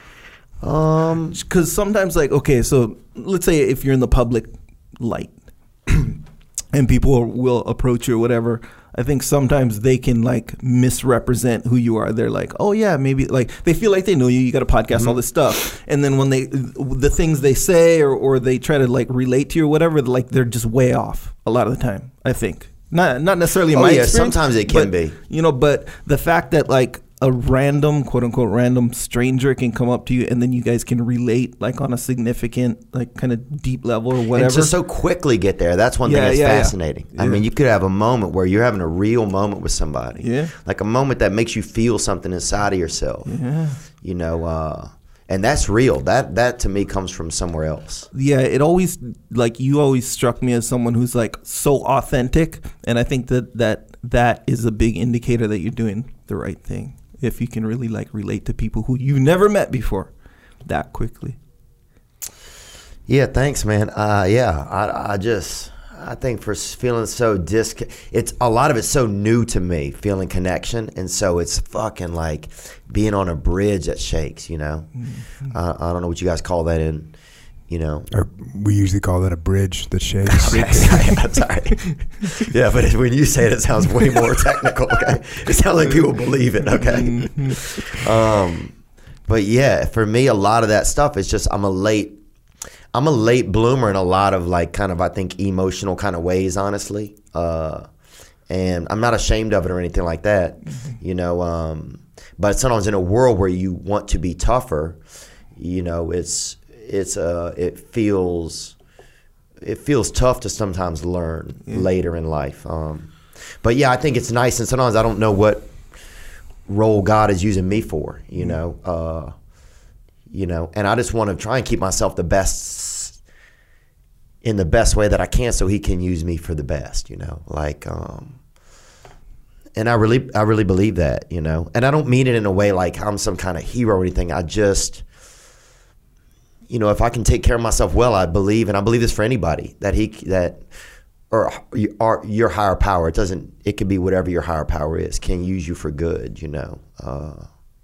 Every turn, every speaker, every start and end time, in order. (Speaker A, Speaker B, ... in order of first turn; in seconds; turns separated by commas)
Speaker A: 0.6-1.4, Speaker B: 1.3-6.2, Speaker B: 6.7-34.8, Speaker A: 23.7-25.1, Speaker A: 34.3-43.3, Speaker B: 36.0-37.4, Speaker B: 40.2-40.5, Speaker B: 43.2-43.8, Speaker A: 43.9-48.1, Speaker B: 48.1-60.1, Speaker B: 60.6-61.4, Speaker A: 63.1-77.1, Speaker B: 75.0-75.2, Speaker A: 77.7-78.1, Speaker C: 78.1-81.2, Speaker A: 80.2-88.7, Speaker B: 86.7-87.6, Speaker A: 89.3-92.2, Speaker A: 92.9-97.9, Speaker A: 98.5-105.0, Speaker A: 105.5-108.8, Speaker A: 109.6-115.7, Speaker A: 116.7-119.3, Speaker A: 120.3-123.2, Speaker A: 124.4-128.4, Speaker A: 129.7-135.0, Speaker A: 136.7-140.6, Speaker A: 141.3-147.5